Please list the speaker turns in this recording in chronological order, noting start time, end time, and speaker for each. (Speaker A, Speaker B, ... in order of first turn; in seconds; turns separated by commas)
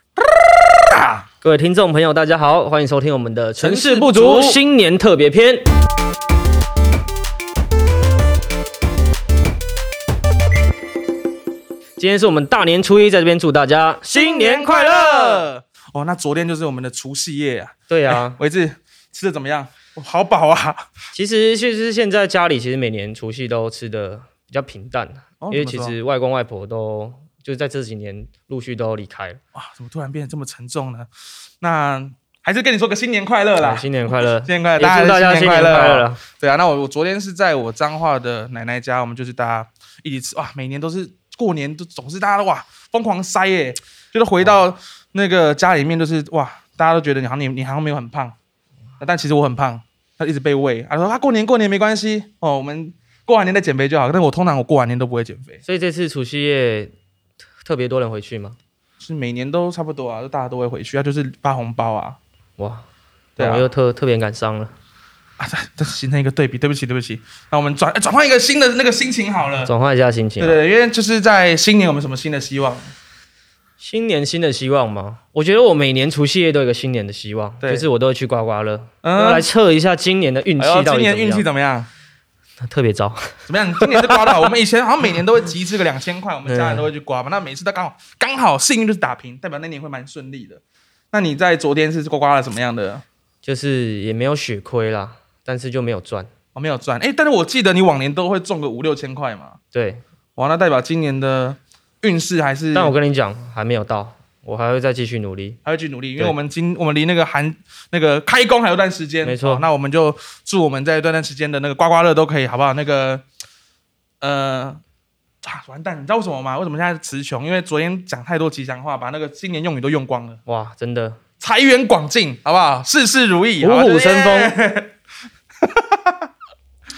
Speaker A: 0.2-1.3, Speaker B: 1.4-5.7, Speaker A: 3.6-4.6, Speaker B: 12.0-15.5, Speaker A: 14.1-20.9, Speaker B: 17.9-18.4, Speaker B: 21.1-29.4, Speaker A: 25.4-26.0, Speaker A: 29.5-31.1, Speaker A: 31.6-48.4, Speaker B: 33.6-36.2, Speaker A: 49.0-55.6, Speaker B: 55.6-56.9, Speaker B: 57.6-58.6, Speaker A: 59.0-62.2, Speaker B: 62.6-64.7, Speaker A: 63.4-63.7, Speaker A: 65.4-69.7, Speaker B: 69.6-70.6, Speaker A: 70.4-72.9, Speaker B: 73.8-81.5, Speaker A: 79.0-79.5, Speaker A: 80.6-81.9, Speaker B: 82.6-84.5, Speaker A: 83.5-90.6, Speaker B: 86.5-86.9, Speaker A: 91.1-93.0, Speaker B: 93.4-96.3, Speaker A: 96.5-99.6, Speaker B: 99.7-100.0, Speaker A: 100.4-103.0, Speaker B: 102.7-105.6, Speaker A: 105.7-113.2, Speaker B: 109.2-109.7, Speaker A: 114.2-114.8, Speaker A: 115.4-120.4, Speaker B: 120.5-121.2, Speaker A: 121.4-124.9, Speaker B: 123.6-124.5, Speaker A: 125.6-126.3